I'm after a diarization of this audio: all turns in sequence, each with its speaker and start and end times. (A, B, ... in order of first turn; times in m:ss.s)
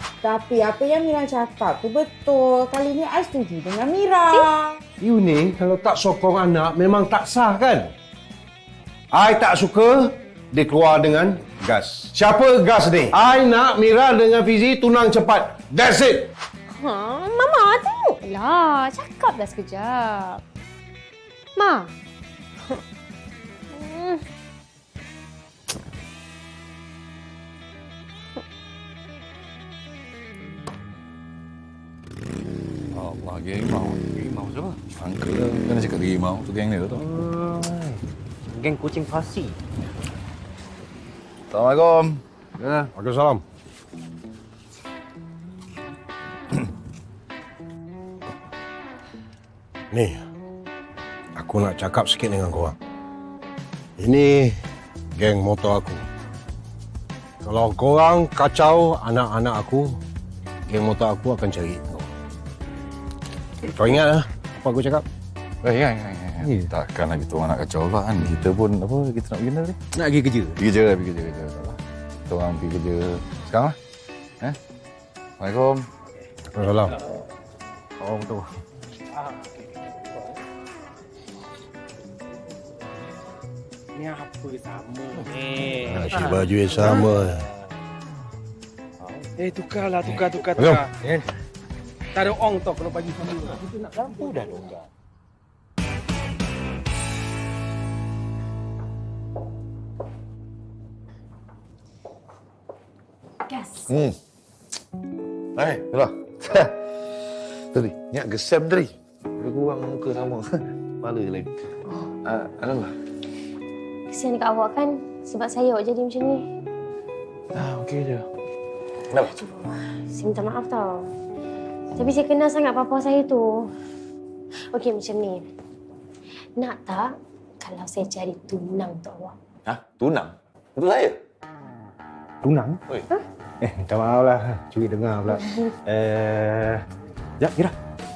0:00.2-0:04.8 A
0:05.0-0:07.9 B
0:09.1-0:16.2 B
0:16.7-0:20.4 C
0:21.6-0:21.9 C
0:23.7-0:24.2 C
0:32.9-0:34.0 D
0:34.1-0:34.8 E
0:35.0-0:37.0 D
0:36.9-0:39.6 E
0:41.5-0:42.2 D
0:42.6-0:42.9 E
0:42.9-0:43.4 B
0:49.9-0:50.2 B
0:51.4-0:52.7 B
0:54.0-0:54.6 B
0:55.1-0:56.0 B
0:57.4-1:00.0 B
1:00.6-1:01.8 B
1:03.7-1:05.0 B
1:05.6-1:09.8 D
1:06.4-1:06.7 E
1:09.9-1:10.6 E
1:10.6-1:11.8 D
1:12.3-1:13.8 D
1:15.4-1:15.9 D
1:16.5-1:16.9 B
1:18.0-1:18.4 E
1:23.9-1:27.2 F
1:25.8-1:27.4 B
1:29.4-1:31.0 F
1:30.6-1:30.8 B
1:32.1-1:34.3 F
1:43.9-1:44.2 D
1:45.6-1:51.5 D
1:52.2-1:52.9 D
1:54.1-1:56.4 C
1:57.5-1:58.2 D
1:59.2-2:01.1 C
2:01.9-2:03.7 C
2:04.6-2:05.5 C
2:06.6-2:09.4 C
2:09.6-2:11.2 D
2:12.4-2:12.8 E
2:13.6-2:16.8 E
2:15.4-2:15.7 C
2:17.4-2:17.8 E